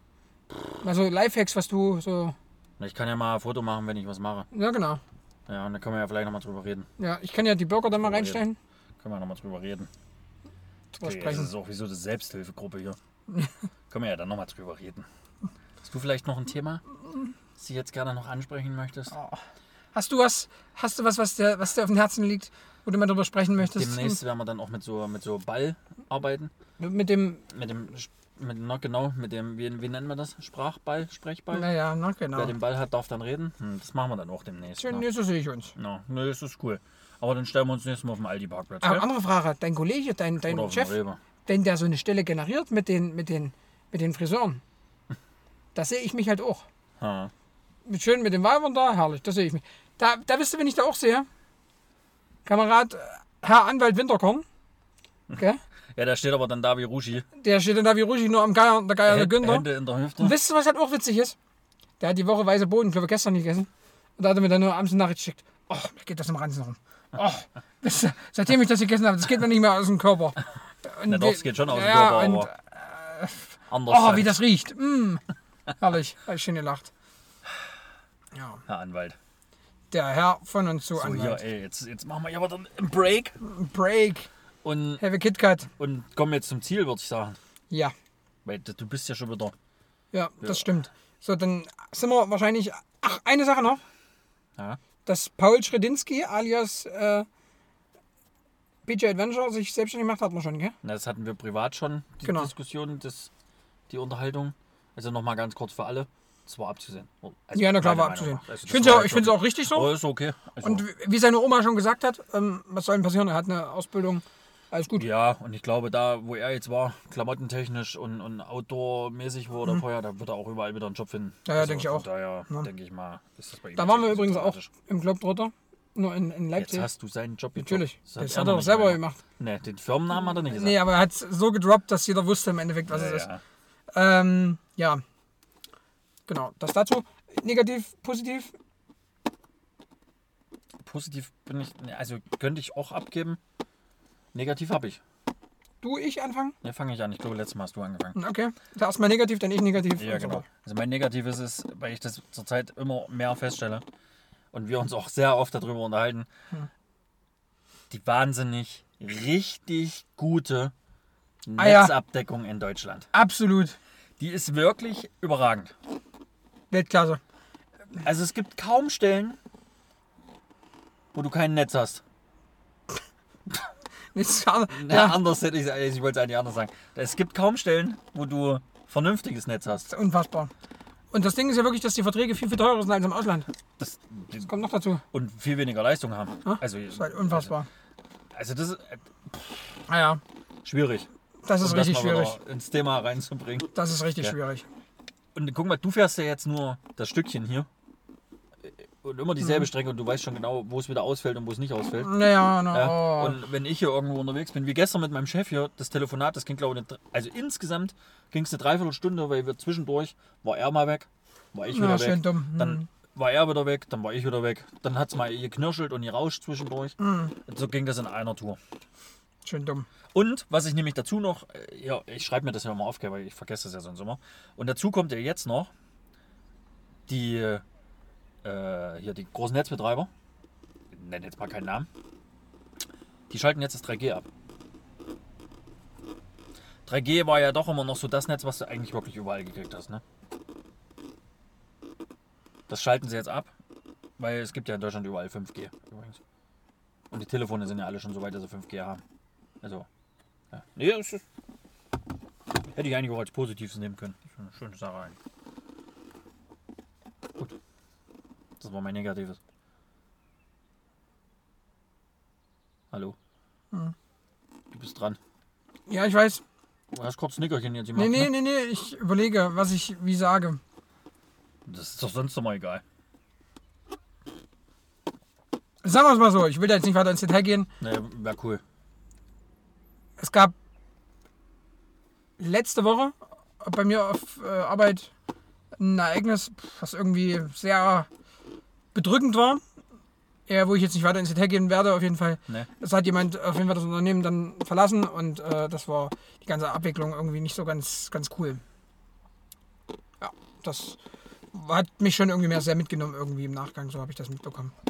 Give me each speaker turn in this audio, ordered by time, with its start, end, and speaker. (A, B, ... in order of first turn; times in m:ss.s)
0:00.8-0:02.4 A
0:02.8-0:04.5 B
0:04.5-0:05.0 A
0:05.5-0:06.9 B
0:07.0-0:08.6 A
0:08.0-0:08.4 B
0:09.0-0:09.9 B
0:10.9-0:11.5 A
0:11.0-0:13.0 B
0:13.9-0:15.1 B
0:15.8-0:16.8 B
0:17.6-0:19.2 B
0:19.1-0:19.4 A
0:19.9-0:24.2 A
0:23.6-0:26.5 B
0:26.8-0:27.4 A
0:27.5-0:31.7 B
0:31.5-0:32.5 A
0:32.3-0:35.0 B
0:34.8-0:35.7 A
0:35.8-0:39.1 B
0:38.8-0:41.0 A
0:40.5-0:41.2 B
0:41.5-0:44.6 A
0:45.8-0:46.6 A
0:47.0-0:47.3 B
0:47.9-0:51.3 A
0:52.4-0:54.4 A
0:56.0-0:57.3 B
0:57.4-0:59.7 A
0:59.1-1:00.4 B
1:00.2-1:01.4 A
1:02.0-1:15.2 A
1:11.1-1:12.5 B
1:13.7-1:14.4 B
1:15.8-1:16.9 A
1:18.4-1:18.6 A
1:18.7-1:19.2 B
1:19.9-1:21.4 A
1:21.0-1:23.4 B
1:23.4-1:24.3 A
1:24.6-1:25.0 B
1:25.0-1:25.7 A
1:25.7-1:27.4 B
1:28.4-1:29.5 B
1:30.1-1:33.8 A
1:30.4-1:30.7 B
1:35.1-1:37.3 A
1:38.9-1:40.8 A
1:40.8-1:43.3 B
1:42.2-1:42.5 A
1:43.9-1:50.8 B
1:47.5-1:49.9 A
1:50.6-1:55.0 A
1:55.0-2:04.7 B
2:01.5-2:02.7 A
2:03.8-2:06.9 A
2:06.6-2:10.8 B
2:07.6-2:09.2 A
2:10.3-2:13.3 A
2:12.9-2:13.4 B
2:13.9-2:15.0 A
2:16.3-2:18.5 A
2:20.8-2:23.4 B
2:24.3-2:25.0 B
2:25.8-2:26.6 A
2:26.6-2:28.2 B
2:28.2-2:30.4 A
2:30.0-2:33.8 B
2:34.5-2:36.3 B
2:37.9-2:40.7 B
2:41.5-2:43.1 B
2:41.6-2:42.0 A
2:43.1-2:43.8 A
2:44.2-2:45.7 B
2:46.7-2:47.2 A
2:48.0-2:49.4 B
2:51.1-2:52.0 B
2:54.2-2:55.2 A
2:54.7-2:59.9 B
2:59.9-3:00.5 A
3:01.1-3:03.5 A
3:03.8-3:04.5 B
3:04.5-3:05.0 A
3:05.1-3:07.5 B
3:06.4-3:07.7 A
3:08.3-3:09.8 B
3:09.9-3:10.2 A
3:10.6-3:11.1 B
3:11.4-3:12.4 A
3:11.6-3:14.4 B
3:13.8-3:14.7 A
3:15.4-3:17.7 B
3:18.6-3:38.6 B
3:19.4-3:19.7 A
3:22.0-3:23.4 A
3:31.7-3:32.9 A
3:37.0-3:37.4 A
3:39.4-3:39.9 A
3:40.1-3:45.7 B
3:47.1-3:47.6 B
3:48.4-3:50.1 B
3:50.9-3:51.9 B
3:53.3-3:54.3 B
3:56.9-4:00.0 B
4:02.7-4:03.5 B
4:04.2-4:06.2 B
4:07.1-4:09.0 B
4:09.6-4:09.9 B
4:10.5-4:11.2 B
4:12.7-4:15.2 B
4:18.6-4:19.4 B
4:22.9-4:23.2 B
4:24.7-4:25.2 B
4:25.9-4:26.4 A
4:26.9-4:28.3 B
4:28.0-4:30.6 A
4:31.7-4:32.8 B
4:35.8-4:37.7 A
4:37.8-4:38.6 B
4:40.2-4:40.5 A
4:42.4-4:45.1 A
4:45.8-4:48.1 A
4:48.9-4:49.6 A
4:50.5-4:58.6 A
5:00.2-5:01.0 A
5:01.5-5:04.7 A